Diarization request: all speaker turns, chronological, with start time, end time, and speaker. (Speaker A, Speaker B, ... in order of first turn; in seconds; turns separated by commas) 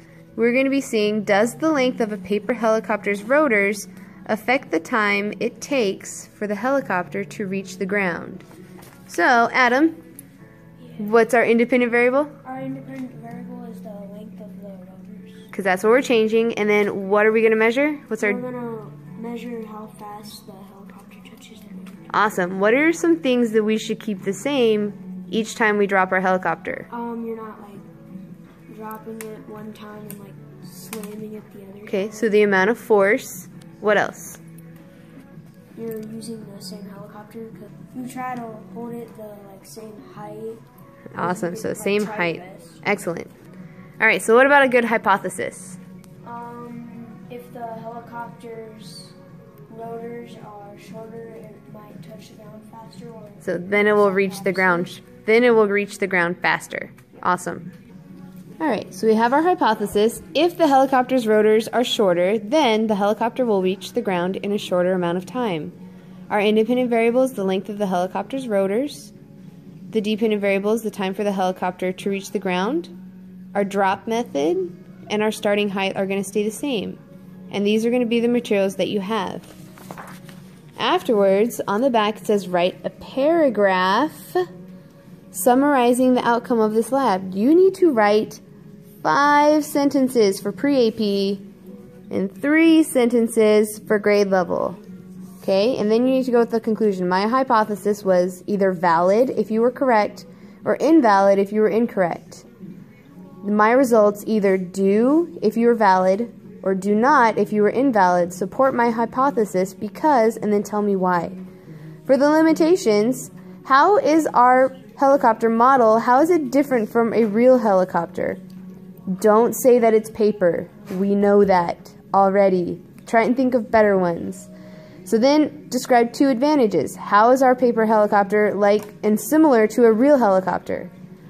Speaker A: 0.3-8.4, Speaker A: 9.1-10.0, Speaker A: 11.0-12.3, Speaker B: 12.4-15.5, Speaker A: 15.5-18.4, Speaker B: 18.2-22.1, Speaker A: 22.1-26.9, Speaker B: 26.9-27.9, Speaker B: 28.7-32.4, Speaker A: 31.9-34.4, Speaker B: 35.7-40.6, Speaker A: 41.1-43.3, Speaker B: 41.2-42.8, Speaker A: 44.0-45.8, Speaker B: 46.2-49.1, Speaker B: 49.7-54.9, Speaker A: 53.4-57.7, Speaker A: 58.6-65.7, Speaker A: 66.3-69.1, Speaker A: 69.9-72.9, Speaker A: 73.5-77.0, Speaker A: 77.5-79.5, Speaker A: 80.8-84.4, Speaker A: 85.3-88.4, Speaker A: 89.0-91.4, Speaker A: 92.1-94.8, Speaker A: 95.4-102.5, Speaker A: 103.4-111.4, Speaker A: 112.0-118.4, Speaker A: 119.1-124.5, Speaker A: 125.0-130.9